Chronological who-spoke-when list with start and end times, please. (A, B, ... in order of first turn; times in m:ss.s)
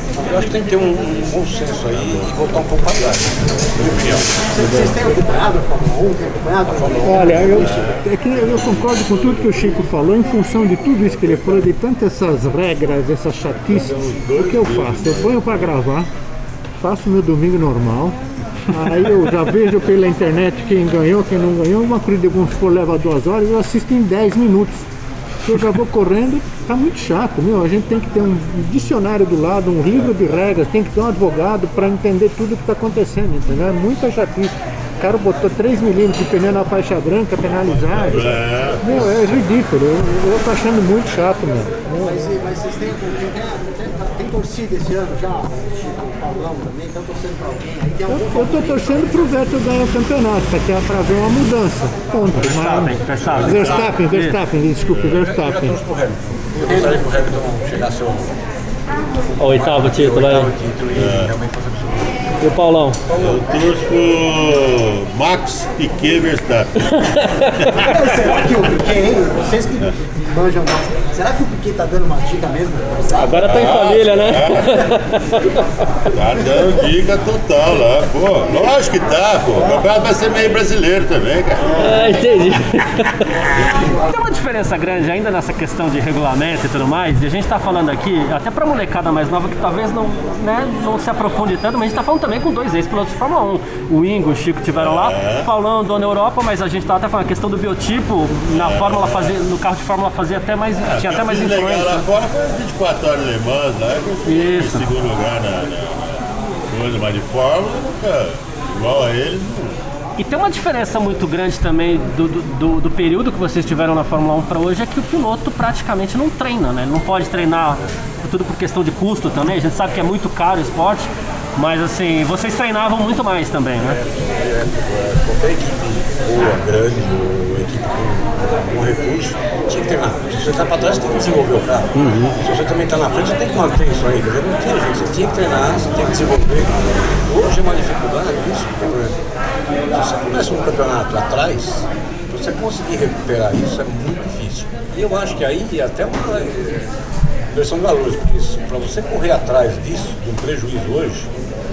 0:00.2-0:04.7 A
0:04.5-0:07.4 B
0:04.6-0:04.9 C
0:06.6-0:07.9 A
0:07.0-0:16.1 D
0:07.4-0:08.0 E
0:13.8-0:15.8 E
0:16.8-0:18.2 D
0:18.7-0:24.9 D
0:25.4-0:42.3 D
0:37.6-0:39.3 E
0:41.9-0:49.2 B
0:48.1-0:55.8 D
0:52.3-0:54.4 C
0:52.4-0:54.0 A
0:55.0-0:58.4 A
0:56.6-0:57.0 B
0:59.4-1:00.5 C
0:59.4-1:02.3 A
1:00.9-1:01.3 E
1:02.4-1:03.0 C
1:03.1-1:07.9 E
1:03.1-1:03.4 B
1:06.9-1:07.8 C
1:07.7-1:13.4 B
1:13.1-1:15.7 C
1:13.4-1:14.9 E
1:16.1-1:22.2 E
1:21.8-1:42.1 C
1:23.6-1:23.9 E
1:34.7-1:35.5 E
1:38.5-1:39.3 E
1:40.8-1:46.2 E
1:44.2-1:44.9 C
1:46.7-1:49.8 E
1:50.2-2:04.0 C
2:04.0-2:19.2 A
2:12.0-2:12.3 E
2:19.9-2:26.9 A
2:27.5-2:31.3 A